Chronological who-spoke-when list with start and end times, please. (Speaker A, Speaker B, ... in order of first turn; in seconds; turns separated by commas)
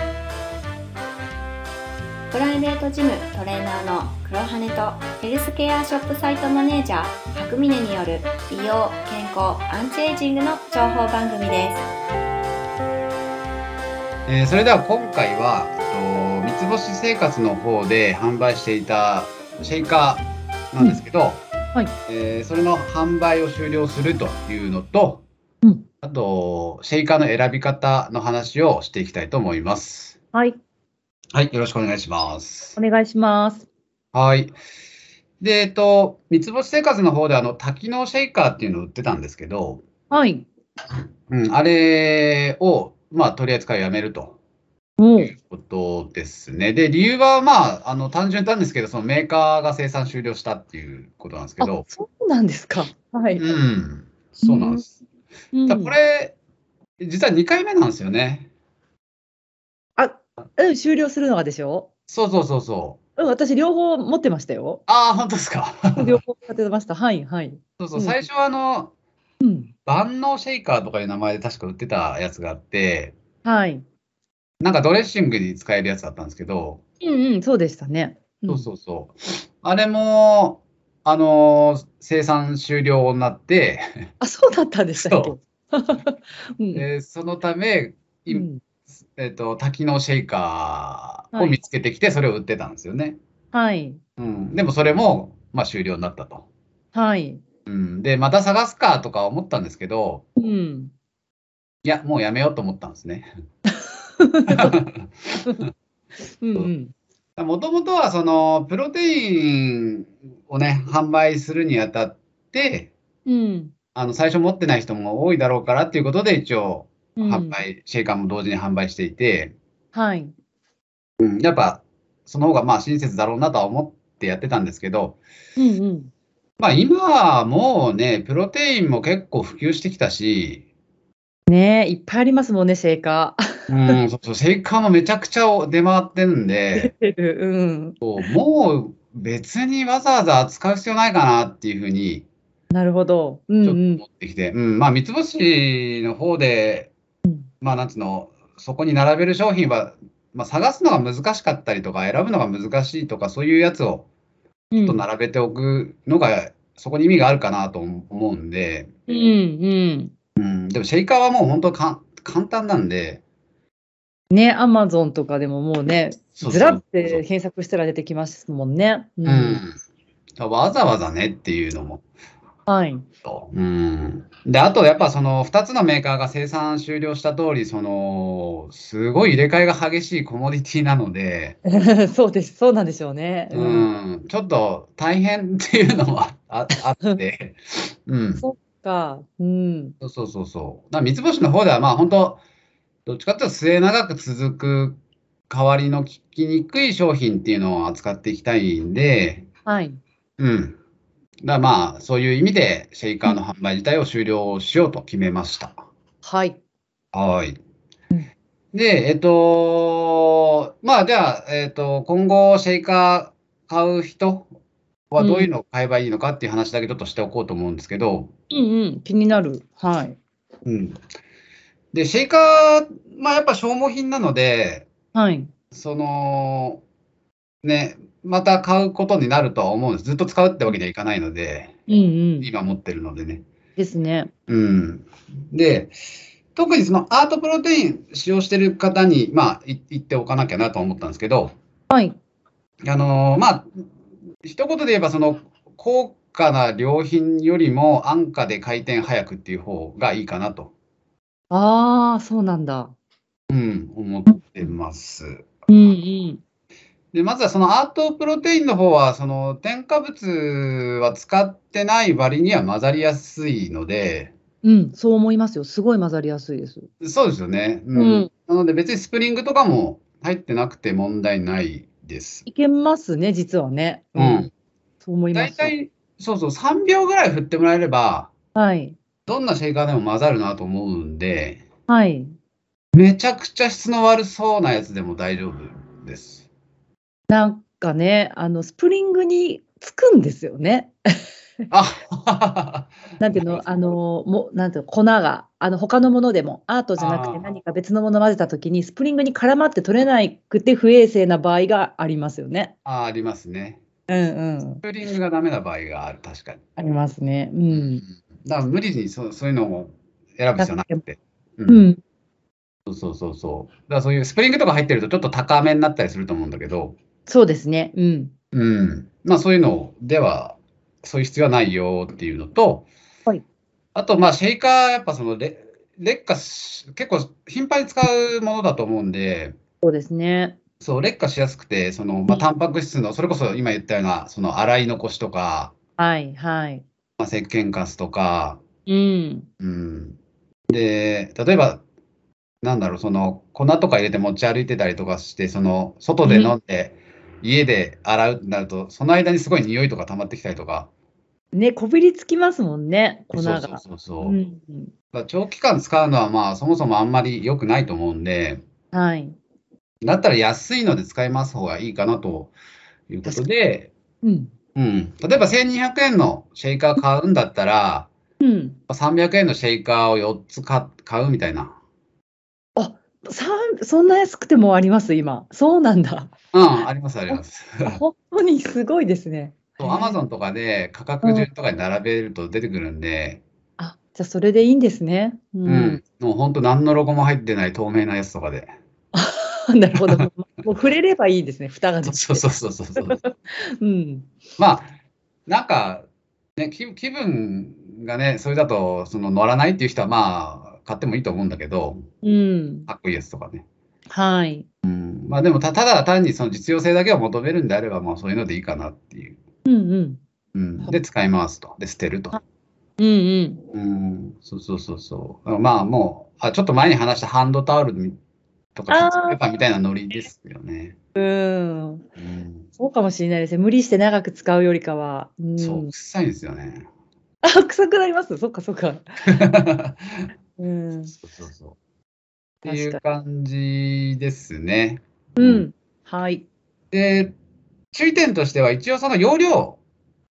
Speaker A: 2.3-11.9, Speaker B: 14.3-21.4, Speaker B: 22.1-25.2, Speaker B: 26.0-30.2, Speaker C: 30.3-30.6, Speaker B: 31.3-32.8, Speaker C: 32.8-33.6, Speaker B: 34.1-34.5, Speaker B: 35.4-39.8, Speaker C: 40.1-40.5, Speaker B: 41.3-44.4, Speaker C: 45.0-45.3, Speaker B: 45.2-51.9, Speaker C: 51.6-53.4, Speaker B: 53.4-54.9, Speaker C: 54.4-54.8, Speaker C: 55.5-55.9, Speaker B: 55.7-56.4, Speaker B: 57.0-58.5, Speaker C: 60.0-61.9, Speaker B: 62.1-63.0, Speaker C: 63.2-64.8, Speaker B: 64.9-66.2, Speaker C: 66.0-68.2, Speaker B: 67.8-68.9, Speaker C: 69.4-69.7, Speaker B: 69.8-73.1, Speaker C: 73.4-73.8, Speaker B: 74.6-76.8, Speaker C: 77.0-78.7, Speaker B: 78.5-84.1, Speaker C: 84.2-86.9, Speaker B: 85.0-85.3, Speaker B: 86.7-88.5, Speaker C: 88.3-88.6, Speaker B: 89.2-93.2, Speaker C: 93.5-94.0, Speaker B: 94.2-96.5, Speaker C: 96.9-97.4, Speaker B: 97.7-100.2, Speaker C: 100.4-100.9, Speaker B: 101.8-103.3, Speaker C: 103.7-104.7, Speaker B: 104.5-105.7, Speaker C: 106.4-106.9, Speaker B: 107.4-112.9, Speaker C: 113.2-113.7, Speaker B: 113.9-119.5, Speaker C: 117.2-117.6, Speaker C: 119.9-120.3, Speaker B: 121.2-125.2, Speaker C: 125.6-126.1, Speaker B: 126.6-130.6, Speaker C: 131.5-133.9, Speaker B: 133.7-136.9, Speaker C: 136.8-138.0, Speaker B: 138.0-142.3, Speaker C: 142.7-144.0, Speaker B: 143.6-146.9, Speaker C: 147.2-147.5, Speaker B: 147.6-154.1, Speaker C: 154.7-155.0, Speaker B: 154.8-158.9, Speaker C: 159.1-160.1, Speaker B: 160.3-163.2, Speaker C: 164.3-169.6, Speaker B: 166.4-167.2, Speaker B: 169.2-169.8, Speaker B: 170.4-172.0, Speaker C: 172.7-173.1, Speaker B: 173.2-181.6, Speaker C: 181.6-183.9, Speaker B: 183.5-188.4, Speaker C: 188.4-189.9, Speaker B: 190.0-192.4, Speaker B: 193.1-199.5, Speaker C: 199.7-200.0, Speaker B: 200.4-200.8, Speaker B: 201.4-205.8, Speaker C: 206.2-206.6, Speaker B: 207.1-207.6, Speaker B: 208.7-214.5, Speaker B: 215.1-218.3, Speaker C: 215.2-215.5, Speaker C: 218.5-220.2, Speaker B: 220.6-221.0, Speaker B: 221.9-224.9, Speaker C: 225.1-225.5, Speaker B: 225.7-226.8, Speaker B: 227.6-231.7, Speaker C: 231.9-232.5, Speaker B: 232.4-233.4, Speaker C: 233.8-234.3, Speaker B: 234.5-235.9, Speaker B: 236.5-241.6, Speaker C: 241.9-242.2, Speaker B: 242.8-243.7, Speaker B: 244.4-250.7, Speaker C: 251.5-252.9, Speaker B: 253.5-255.5, Speaker C: 254.3-254.7, Speaker C: 255.7-256.4, Speaker B: 257.1-264.3, Speaker C: 264.6-266.9, Speaker B: 267.0-272.4, Speaker C: 267.9-268.3, Speaker C: 272.4-274.5, Speaker B: 274.1-274.5, Speaker C: 275.0-275.7, Speaker B: 275.3-278.3, Speaker C: 278.5-279.0, Speaker B: 279.2-281.6, Speaker C: 281.9-282.4, Speaker B: 282.9-286.5, Speaker C: 287.3-290.9, Speaker B: 291.7-293.6, Speaker C: 293.2-302.7, Speaker B: 297.0-297.5, Speaker B: 302.8-303.8, Speaker C: 304.1-304.8, Speaker B: 304.8-306.6, Speaker C: 306.8-308.0, Speaker B: 307.7-311.9, Speaker C: 310.6-311.0, Speaker C: 311.7-312.0, Speaker B: 312.9-317.0, Speaker C: 317.3-318.3, Speaker B: 318.5-322.9, Speaker B: 323.9-329.5, Speaker C: 329.8-330.6, Speaker B: 330.8-335.7, Speaker C: 336.0-336.8, Speaker B: 337.2-338.6, Speaker C: 338.9-339.5, Speaker B: 339.6-340.2, Speaker B: 340.7-341.8, Speaker B: 342.6-350.9, Speaker C: 346.2-346.6, Speaker C: 351.5-354.9, Speaker B: 353.3-354.4, Speaker B: 355.1-358.6, Speaker C: 358.9-359.4, Speaker B: 360.0-362.5, Speaker B: 363.1-363.9, Speaker C: 364.2-364.5, Speaker B: 364.7-368.1, Speaker C: 368.4-368.8, Speaker B: 368.9-371.8, Speaker C: 372.8-376.3, Speaker B: 376.5-378.0, Speaker C: 377.3-380.2, Speaker B: 379.8-383.4, Speaker C: 381.2-381.5, Speaker C: 383.8-386.0, Speaker B: 385.6-388.7, Speaker C: 389.1-392.4, Speaker B: 392.0-393.2, Speaker C: 393.0-394.3, Speaker B: 394.6-394.9, Speaker B: 395.5-402.1, Speaker C: 402.2-402.9, Speaker B: 402.9-403.6, Speaker C: 404.1-404.6, Speaker B: 404.8-409.4, Speaker C: 409.6-410.2, Speaker B: 410.5-412.4, Speaker C: 413.0-413.6, Speaker B: 413.7-418.2, Speaker B: 418.7-420.9, Speaker C: 418.9-419.4, Speaker C: 421.1-422.1, Speaker B: 422.2-422.7, Speaker C: 422.8-425.9, Speaker B: 425.6-426.9, Speaker C: 427.4-429.4, Speaker B: 429.2-430.3, Speaker C: 430.6-431.1, Speaker B: 431.1-431.8, Speaker C: 432.6-433.0, Speaker B: 432.6-435.6, Speaker C: 435.4-436.4, Speaker B: 436.9-437.3, Speaker B: 437.9-439.8